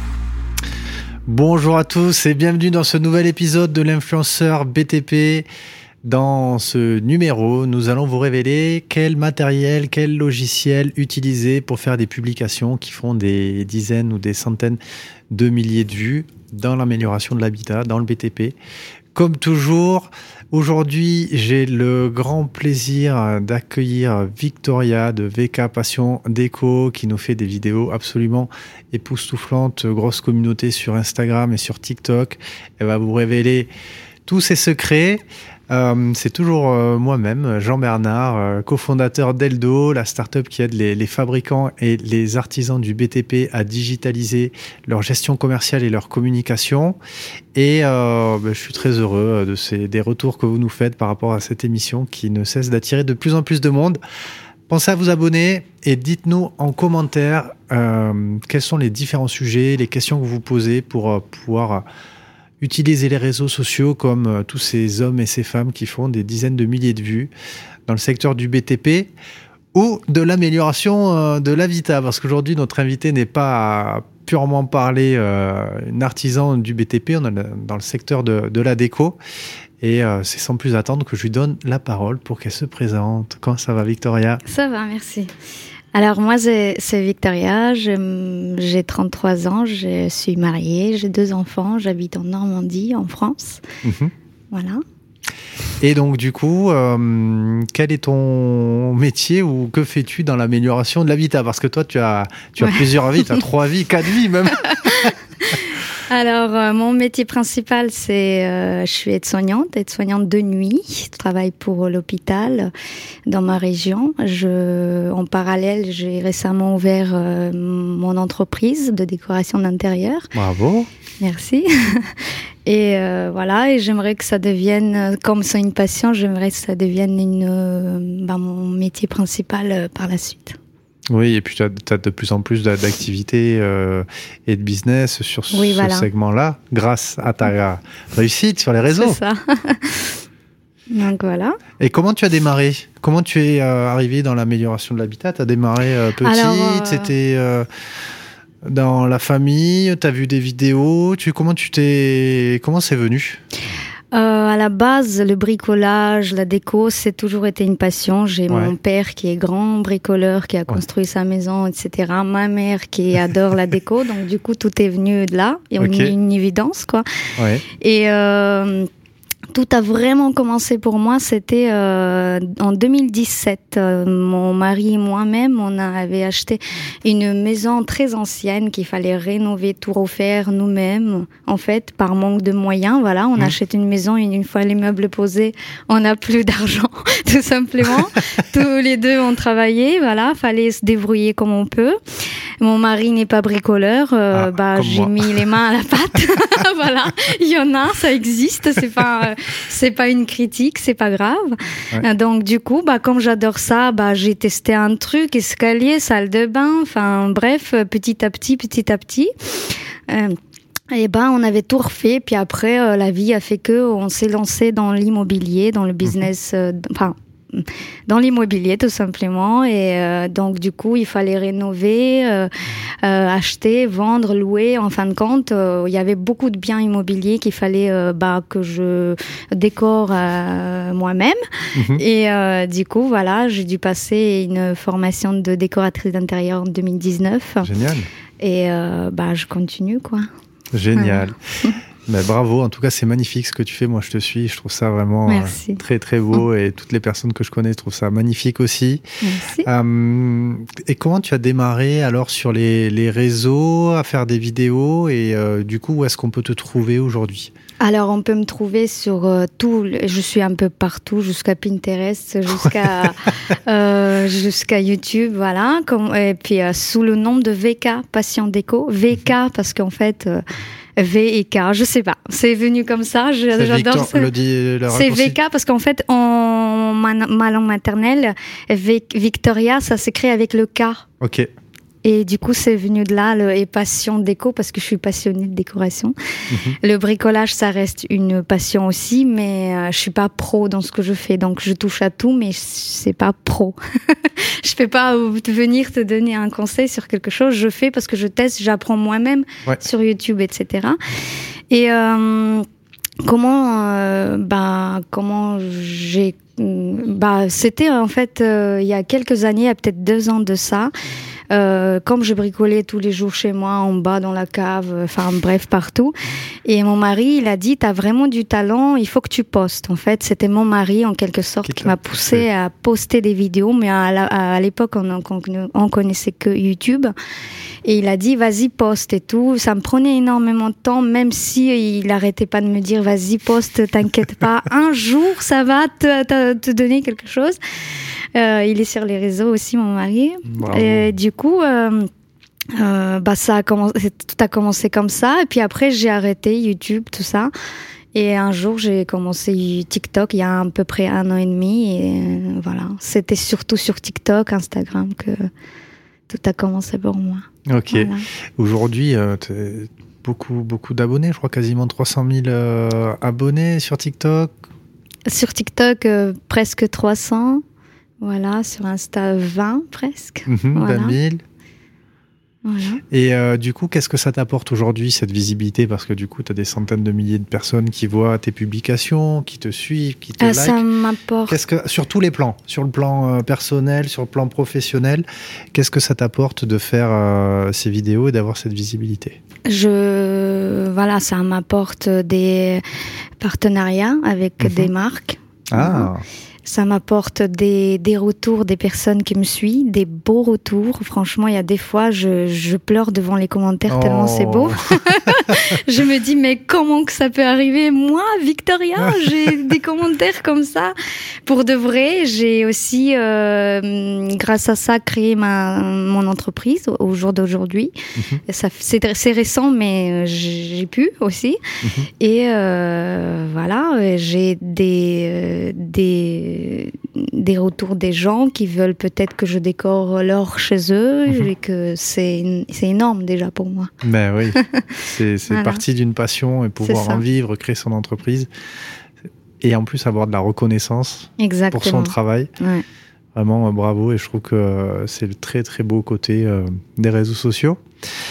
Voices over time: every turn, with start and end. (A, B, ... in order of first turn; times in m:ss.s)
0:01.3-0:05.4 A
0:06.0-0:14.8 A
0:15.3-0:18.6 A
0:19.1-0:33.7 A
0:34.3-0:47.0 A
0:47.5-0:54.0 A
0:54.7-1:01.8 A
1:02.6-1:07.3 A
1:07.9-1:09.1 A
1:09.7-1:19.2 A
1:19.8-1:24.4 A
1:24.4-1:25.3 B
1:25.9-1:33.6 B
1:33.8-1:34.1 A
1:34.5-1:34.8 B
1:35.8-1:45.1 A
1:42.6-1:43.4 B
1:44.7-1:52.7 B
1:53.3-2:00.3 B
2:00.3-2:00.9 A
2:01.2-2:10.6 B
2:11.1-2:19.2 A
2:15.5-2:16.1 B
2:19.0-2:20.2 B
2:20.9-2:21.6 B
2:21.8-2:27.6 A
2:26.2-2:27.1 B
2:28.6-2:33.4 A
2:34.1-2:47.0 B
2:38.5-2:38.7 A
2:45.8-2:46.1 A
2:47.4-2:47.6 A
2:47.7-2:48.9 B
2:49.5-3:12.0 B
3:12.6-3:30.4 B
3:14.3-3:15.4 A
3:30.9-3:42.5 B
3:43.0-3:57.7 B
3:51.7-3:52.0 A
3:57.6-3:58.1 A
3:58.4-4:00.3 B
4:00.7-4:01.4 A
4:00.9-4:01.8 B
4:02.0-4:09.0 A
4:05.3-4:05.8 B
4:09.2-4:09.7 B
4:09.6-4:17.5 A
4:17.8-4:30.4 B
4:31.0-4:34.3 B
4:33.5-4:35.3 A
4:34.9-4:41.0 B
4:41.2-4:41.5 A
4:42.0-4:46.1 B
4:46.5-4:46.8 A
4:46.8-5:01.0 B
5:01.7-5:02.6 B
5:03.2-5:10.9 B
5:11.5-5:27.1 B
5:21.6-5:22.4 A
5:27.8-5:37.6 B
5:38.3-5:42.1 B
5:40.4-5:41.1 A
5:42.7-5:47.5 B
5:48.1-5:55.5 B
5:56.3-5:58.2 B
5:57.7-6:04.5 A
6:05.3-6:07.6 B
6:08.2-6:11.2 B
6:10.5-6:11.4 A
6:12.6-6:13.0 B
6:13.1-6:20.8 A
6:20.4-6:21.6 B
6:21.5-6:29.4 A
6:29.7-6:32.8 B
6:33.4-6:36.1 B
6:34.6-6:34.9 A
6:35.7-6:36.2 A
6:36.6-6:50.9 B
6:43.9-6:44.8 A
6:49.0-6:49.5 A
6:51.4-6:57.9 B
6:58.2-6:58.4 A
6:58.4-7:01.6 B
7:01.8-7:02.1 A
7:02.2-7:13.9 B
7:14.0-7:18.5 A
7:14.6-7:15.8 B
7:16.8-7:17.2 B
7:19.6-7:22.5 A
7:21.4-7:22.8 B
7:23.3-7:27.8 A